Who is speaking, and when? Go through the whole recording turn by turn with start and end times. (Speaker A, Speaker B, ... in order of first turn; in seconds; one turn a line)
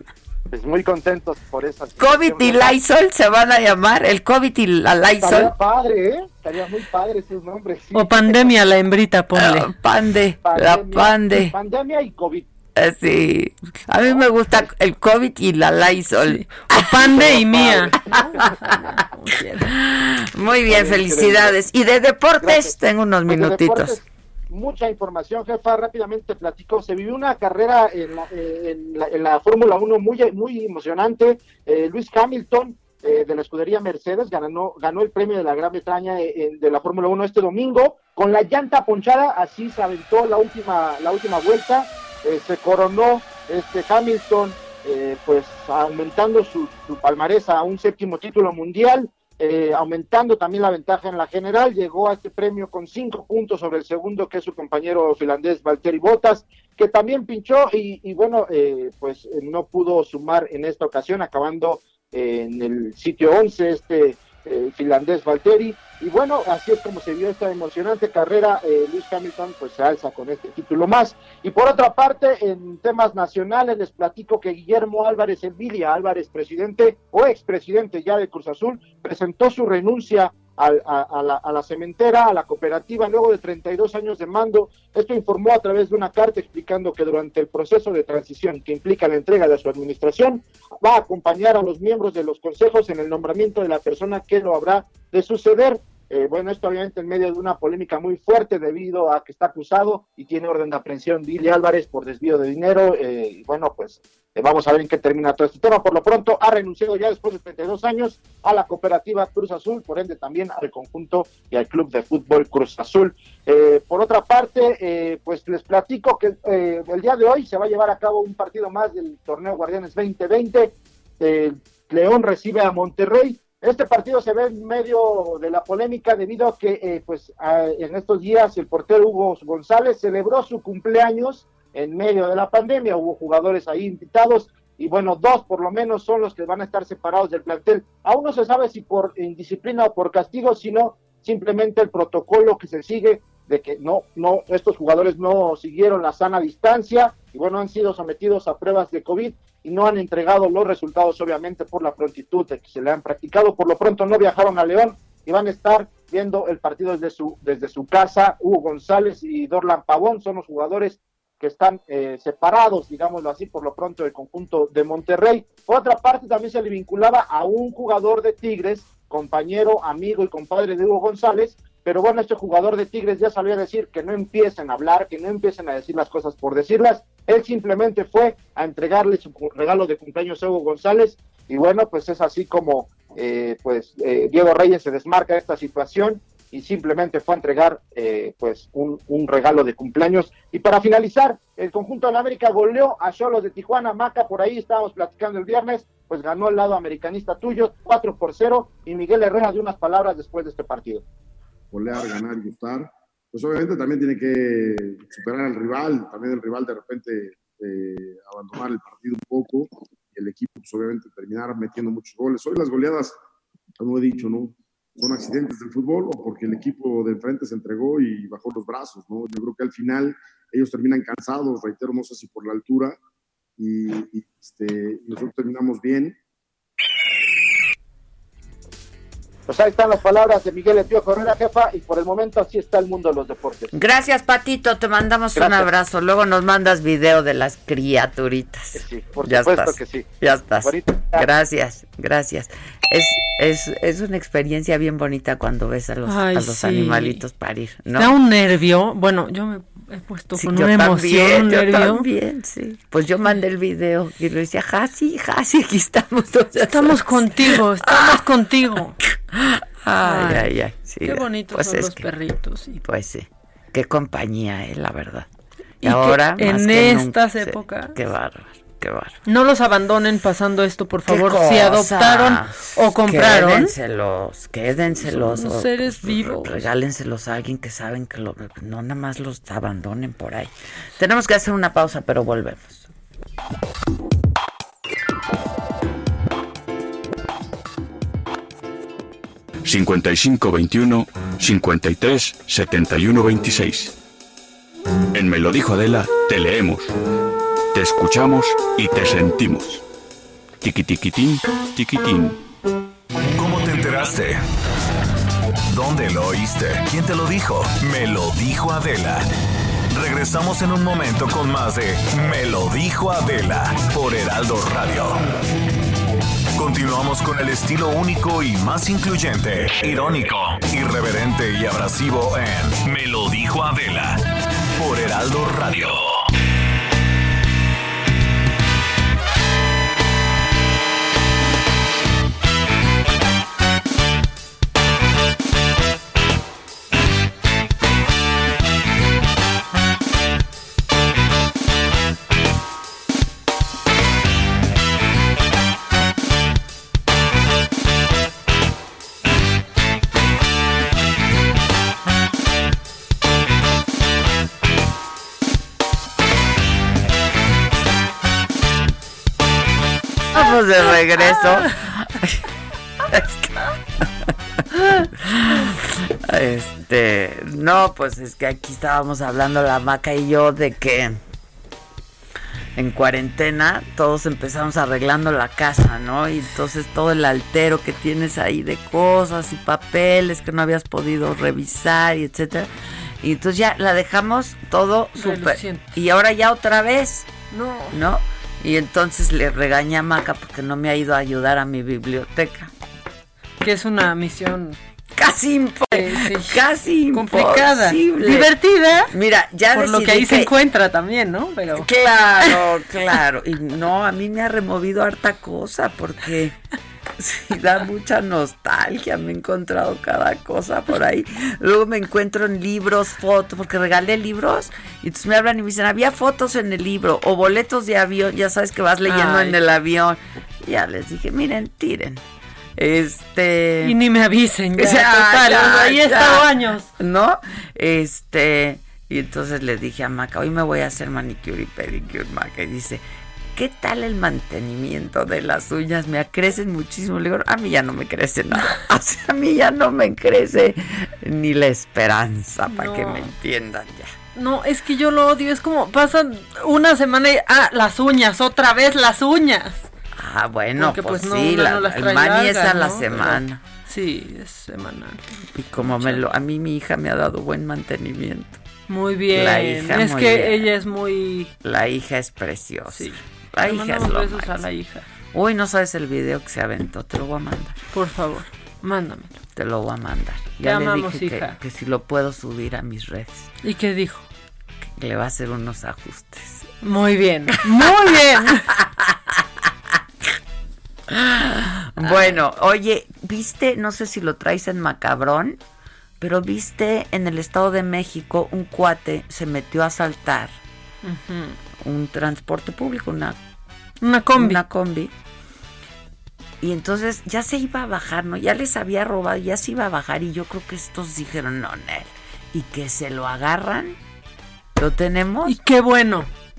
Speaker A: 0.5-2.8
Speaker B: 2.0-5.5
Speaker A: 5.2-8.5
Speaker C: 7.9-9.7
Speaker B: 9.3-11.6
Speaker A: 10.4-12.5
Speaker B: 12.8-17.4
Speaker C: 16.3-19.7
Speaker A: 17.2-17.9
Speaker B: 19.7-24.0
Speaker A: 20.7-21.6
Speaker A: 22.4-22.8
Speaker A: 23.3-201.0
Speaker D: 201.7-213.2
Speaker D: 213.8-223.0
Speaker D: 223.6-226.2
Speaker A: 229.5-233.8
Speaker B: 233.7-248.1
Speaker A: 235.4-235.7
Speaker A: 238.8-240.1
Speaker A: 240.6-241.3
Speaker C: 246.1-247.2
Speaker C: 248.0-252.1
Speaker B: 250.3-258.2
Speaker C: 256.7-259.0
Speaker B: 259.0-262.1
Speaker C: 260.0-260.5
Speaker C: 261.0-262.8
Speaker B: 262.8-265.3
Speaker C: 265.8-267.9
Speaker B: 265.8-269.2
Speaker C: 269.3-273.7
Speaker B: 271.1-282.9
Speaker C: 275.0-276.7
Speaker E: 289.7-293.9
Speaker E: 295.1-296.9
Speaker E: 297.7-299.8
Speaker E: 300.6-302.4
Speaker F: 303.4-304.4
Speaker F: 305.7-309.3
Speaker F: 309.9-315.2
Speaker F: 316.6-324.2
Speaker F: 324.8-326.1
Speaker B: 360.3-362.4
Speaker C: 360.4-361.7
Speaker B: 363.1-363.5
Speaker B: 365.1-371.2
Speaker B: 372.8-387.3
Speaker C: 385.2-385.9
Speaker C: 387.5-388.0
Speaker B: 387.9-392.7
Speaker C: 393.6-394.8
Speaker B: 395.1-398.5
Speaker C: 395.9-396.6
Speaker C: 397.1-399.1
Speaker B: 399.1-400.5
Speaker C: 399.7-401.9
Speaker B: 401.7-406.6
Speaker B: 407.2-422.2
Speaker C: 419.1-419.6
Speaker B: 422.8-424.0
Speaker C: 423.8-426.9
Speaker B: 424.8-433.0
Speaker B: 433.6-444.1
Speaker C: 442.7-443.3
Speaker C: 444.4-449.9
Speaker B: 450.2-453.6
Speaker C: 450.8-456.2
Speaker B: 455.6-458.6
Speaker C: 458.9-461.5
Speaker B: 459.3-460.7
Speaker B: 461.6-464.6
Speaker C: 462.9-465.1
Speaker B: 465.3-467.8
Speaker C: 467.9-469.3
Speaker B: 469.5-473.5
Speaker C: 470.6-471.6
Speaker C: 473.6-474.3
Speaker B: 475.0-476.7
Speaker C: 476.8-478.7
Speaker B: 478.7-479.4
Speaker B: 481.1-485.6
Speaker C: 482.0-482.4
Speaker B: 486.2-490.6
Speaker C: 491.0-491.6
Speaker B: 491.8-493.4
Speaker C: 494.0-494.6
Speaker B: 494.4-495.1
Speaker B: 496.6-504.0
Speaker B: 504.8-505.6
Speaker C: 505.4-506.3